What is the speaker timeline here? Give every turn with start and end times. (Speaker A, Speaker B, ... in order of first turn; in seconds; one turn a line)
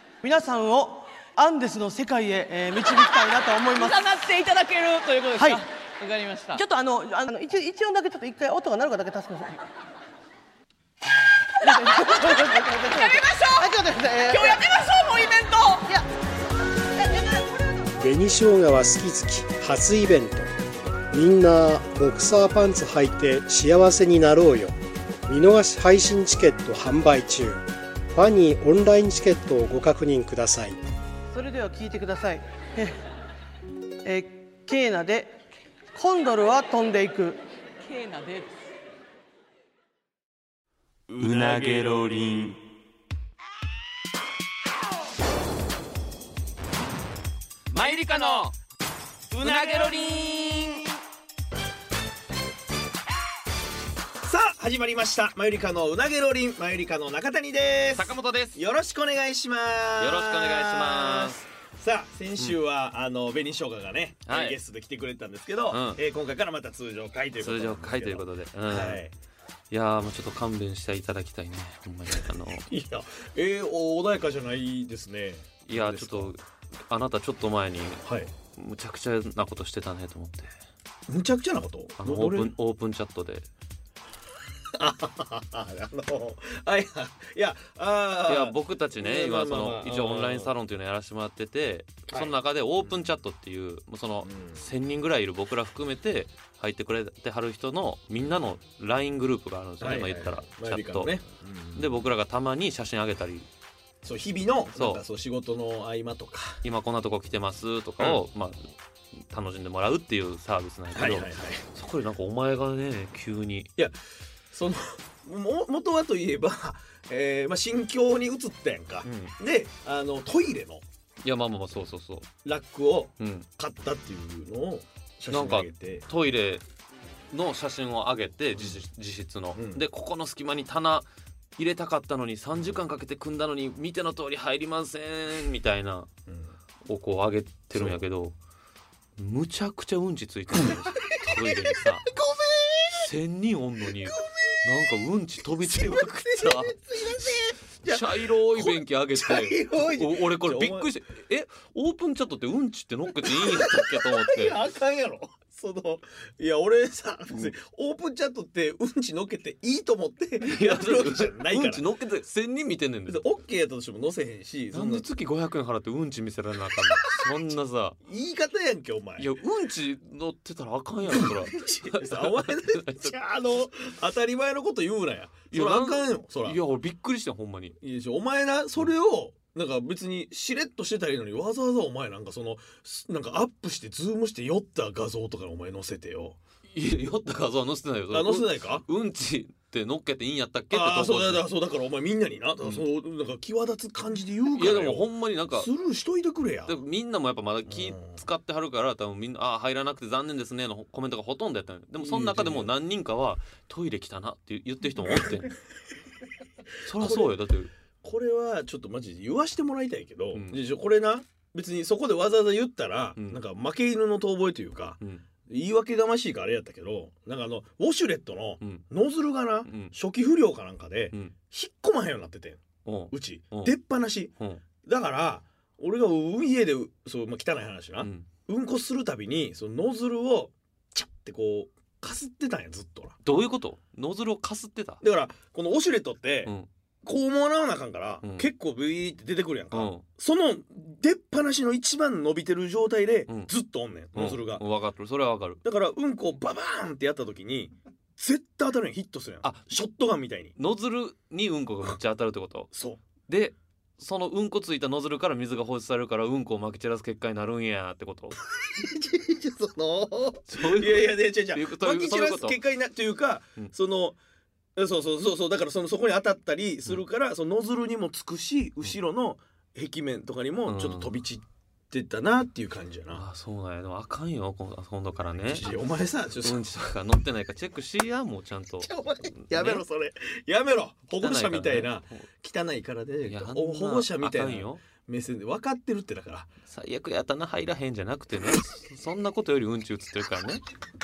Speaker A: 0.2-4.2
Speaker B: 3.7-6.6
Speaker A: 5.4-5.6
Speaker A: 6.5-9.7
Speaker A: 11.6-14.6
Speaker B: 11.6-15.9
Speaker C: 18.0-20.5
Speaker C: 21.1-24.8
Speaker C: 25.3-30.8
Speaker A: 31.3-33.0
Speaker A: 34.0-35.4
Speaker A: 35.9-37.4
Speaker B: 37.8-38.6
Speaker D: 41.1-42.6
Speaker E: 41.2-42.0
Speaker D: 47.7-48.5
Speaker D: 49.3-50.9
Speaker E: 49.4-50.2
Speaker E: 54.2-69.1
Speaker D: 58.0-58.6
Speaker D: 60.0-61.4
Speaker D: 64.3-64.6
Speaker D: 65.7-66.0
Speaker D: 67.4-69.0
Speaker D: 69.7-72.7
Speaker E: 72.7-76.3
Speaker D: 75.7-80.5
Speaker E: 78.0-78.3
Speaker E: 81.1-82.5
Speaker D: 82.0-83.5
Speaker E: 84.7-90.5
Speaker D: 88.3-101.2
Speaker E: 92.1-93.1
Speaker E: 94.2-94.7
Speaker E: 99.8-102.1
Speaker D: 101.8-103.5
Speaker E: 104.0-106.6
Speaker D: 104.8-105.0
Speaker D: 106.6-113.7
Speaker E: 110.9-111.7
Speaker E: 114.5-120.8
Speaker D: 119.0-119.3
Speaker D: 121.2-122.3
Speaker E: 122.4-126.0
Speaker D: 123.2-123.5
Speaker D: 125.3-126.6
Speaker D: 127.3-136.1
Speaker E: 128.6-128.8
Speaker E: 129.6-129.8
Speaker E: 136.3-136.6
Speaker D: 136.8-138.3
Speaker E: 137.7-138.0
Speaker D: 139.2-142.1
Speaker E: 140.6-142.9
Speaker D: 142.9-154.6
Speaker E: 145.6-150.9
Speaker E: 153.2-161.8
Speaker D: 160.4-163.3
Speaker E: 163.1-165.1
Speaker D: 164.7-168.0
Speaker E: 166.7-167.3
Speaker E: 168.0-169.3
Speaker D: 169.2-173.1
Speaker E: 171.1-176.6
Speaker D: 175.5-177.8
Speaker E: 177.8-186.4
Speaker D: 186.7-191.5
Speaker E: 188.1-188.9
Speaker E: 190.7-196.8
Speaker D: 194.5-195.7
Speaker D: 196.7-205.6
Speaker E: 197.7-198.2
Speaker E: 202.0-202.7
Speaker E: 205.0-205.3
Speaker D: 206.8-207.7
Speaker E: 206.9-207.4
Speaker E: 208.0-233.2
Speaker D: 210.3-210.6
Speaker D: 213.2-213.4
Speaker D: 218.6-218.9
Speaker D: 219.7-219.9
Speaker D: 222.8-223.8
Speaker D: 228.0-228.3
Speaker D: 233.2-235.0
Speaker E: 235.0-236.5
Speaker E: 237.0-244.6
Speaker D: 238.2-238.5
Speaker D: 239.7-240.1
Speaker D: 244.1-245.6
Speaker E: 245.7-250.5
Speaker D: 249.4-249.7
Speaker D: 250.6-252.7
Speaker E: 252.7-253.0
Speaker D: 253.3-258.4
Speaker E: 258.7-264.2
Speaker D: 260.5-262.6
Speaker E: 264.8-273.2
Speaker D: 270.7-271.1
Speaker D: 273.1-275.7
Speaker E: 275.5-276.7
Speaker D: 276.4-279.8
Speaker E: 278.8-286.5
Speaker D: 281.2-282.2
Speaker D: 283.3-284.8
Speaker D: 286.7-290.6